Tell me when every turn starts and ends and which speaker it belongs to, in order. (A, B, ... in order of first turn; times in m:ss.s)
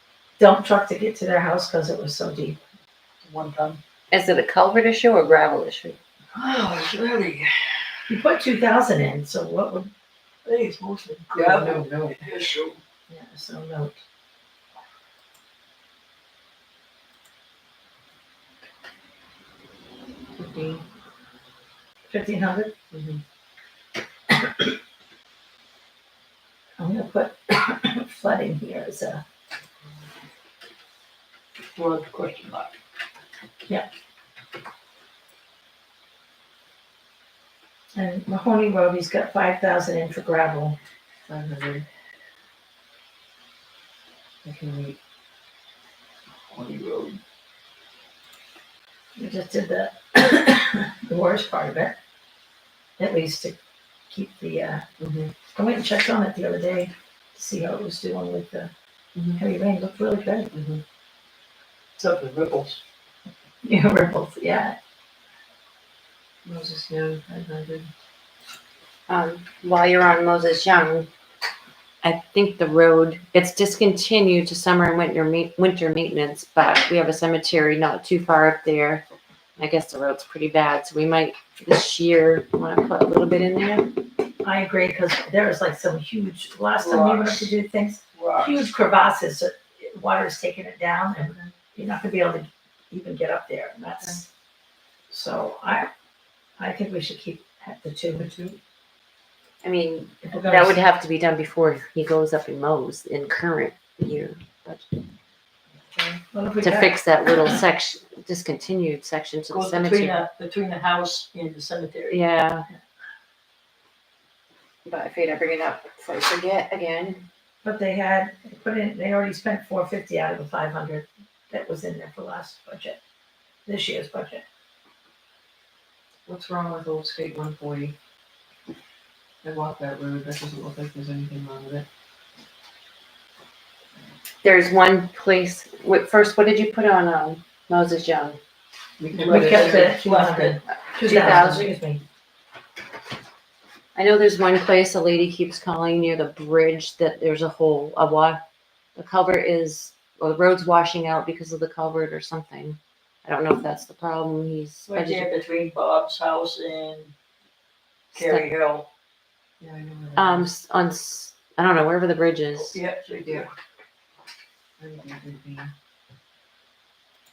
0:00.4-0:02.6 A
0:03.2-0:03.8 B
0:04.1-0:06.0 C
0:06.3-0:07.8 B
0:08.1-0:09.9 A
0:10.4-0:12.8 B
0:11.3-0:12.3 D
0:13.1-0:14.0 A
0:20.4-0:20.8 D
0:22.1-0:22.7 A
0:22.9-0:23.2 D
0:26.8-0:29.2 A
0:31.7-0:32.7 B
0:38.0-0:40.8 A
0:41.3-0:41.9 D
0:44.4-0:45.0 D
0:46.5-0:47.2 B
0:49.2-0:52.0 A
0:53.0-0:53.6 A
0:54.1-0:54.8 A
0:55.0-0:55.3 D
0:55.6-0:58.7 A
0:59.4-1:00.5 A
1:00.5-1:00.8 D
1:02.0-1:02.8 B
1:03.6-1:04.8 A
1:06.4-1:07.9 D
1:09.1-1:11.1 C
1:12.0-1:19.0 C
1:19.6-1:23.9 C
1:24.4-1:34.3 A
1:26.8-1:27.5 B
1:28.1-1:28.6 B
1:35.1-1:35.9 A
1:36.6-1:38.3 A
1:38.2-1:38.6 D
1:39.6-1:44.8 C
1:40.3-1:40.8 A
1:45.9-1:46.2 D
1:46.3-1:47.6 A
1:46.6-1:50.2 C
1:49.5-1:52.2 B
1:52.1-1:52.7 C
1:54.8-1:57.2 C
1:57.6-2:03.0 A
2:03.7-2:04.4 A
2:06.3-2:08.0 D
2:09.4-2:11.8 D
2:14.4-2:18.4 C
2:19.0-2:20.0 D
2:19.1-2:20.6 B
2:19.3-2:22.0 A
2:20.9-2:21.7 C
2:24.0-2:28.4 C
2:29.0-2:35.3 C
2:34.9-2:37.1 B
2:38.1-2:38.5 C
2:38.1-2:38.9 B
2:39.6-2:40.5 D
2:40.2-2:42.8 C
2:42.6-2:43.5 B
2:43.2-2:43.5 D
2:44.8-2:45.7 D